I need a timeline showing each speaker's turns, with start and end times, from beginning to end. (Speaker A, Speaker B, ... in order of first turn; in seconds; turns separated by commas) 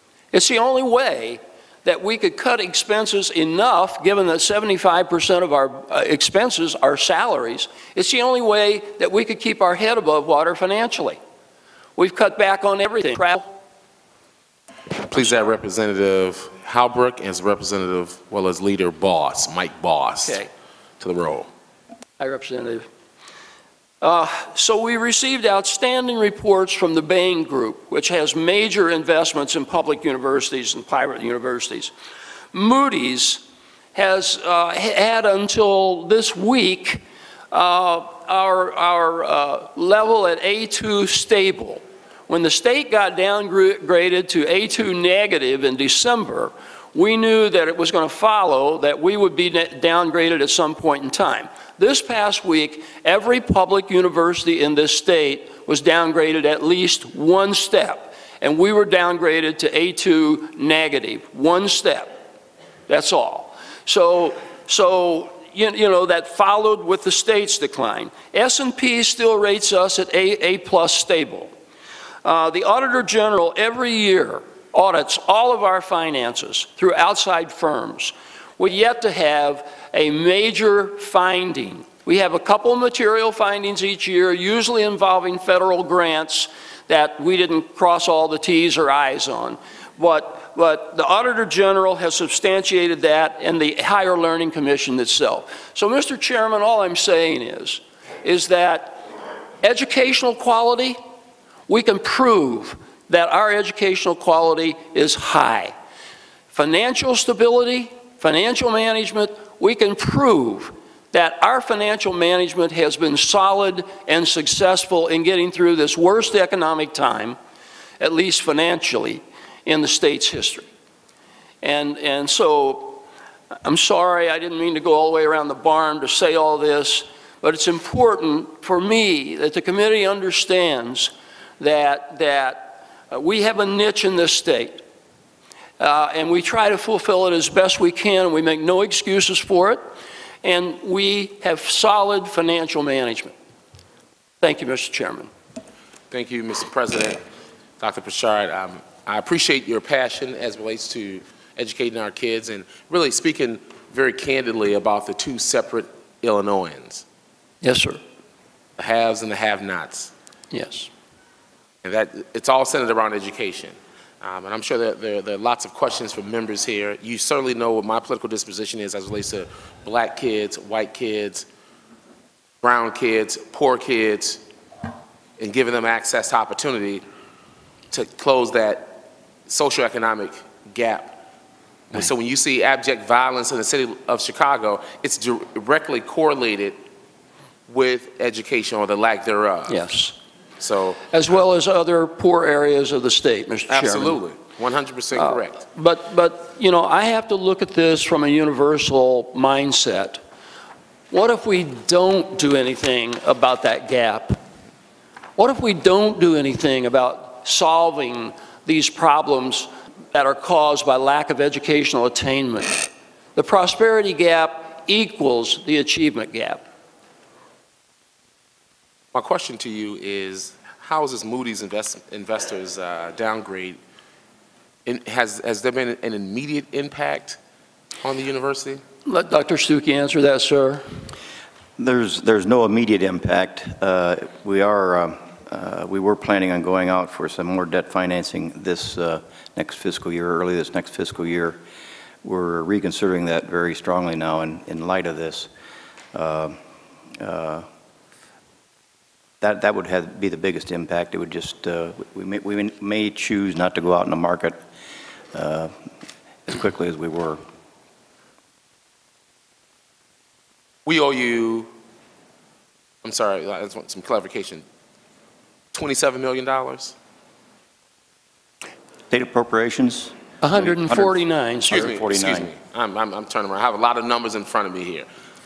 Speaker A: 0.3-11.2, Speaker A: 12.0-13.6, Speaker B: 15.1-20.4, Speaker B: 21.0-21.5, Speaker A: 22.2-22.9, Speaker A: 24.0-31.9, Speaker A: 32.5-33.4, Speaker A: 33.9-62.2, Speaker A: 62.9-71.5, Speaker A: 72.2-99.0, Speaker A: 99.6-101.0, Speaker A: 101.7-105.7, Speaker A: 106.5-117.4, Speaker A: 118.0-120.7, Speaker A: 121.6-123.0, Speaker A: 123.7-134.8, Speaker A: 135.8-139.9, Speaker A: 140.4-143.3, Speaker A: 144.4-145.3, Speaker B: 146.1-147.2, Speaker B: 147.8-157.0, Speaker A: 157.6-158.0, Speaker B: 158.8-160.1, Speaker A: 160.5-160.9, Speaker B: 161.8-171.5, Speaker B: 172.6-174.4, Speaker B: 175.4-177.0, Speaker B: 177.9-181.2, Speaker B: 181.9-186.8, Speaker B: 187.7-189.8, Speaker A: 189.7-190.2, Speaker B: 190.6-191.0, Speaker A: 191.1-194.2, Speaker B: 193.7-195.6, Speaker A: 195.2-200.2, Speaker A: 201.1-204.4, Speaker A: 205.4-216.7, Speaker B: 219.1-223.8, Speaker B: 224.9-227.4, Speaker B: 228.0-228.8, Speaker A: 229.1-230.8, Speaker C: 231.8-241.6, Speaker C: 242.2-245.5, Speaker C: 246.1-246.6, Speaker C: 247.2-247.7, Speaker C: 249.4-254.6, Speaker C: 255.3-255.8, Speaker C: 256.5-257.4, Speaker B: 260.9-261.7, Speaker B: 263.0-264.6, Speaker B: 265.7-266.9, Speaker C: 269.1-272.5, Speaker A: 270.4-271.9, Speaker B: 271.7-275.1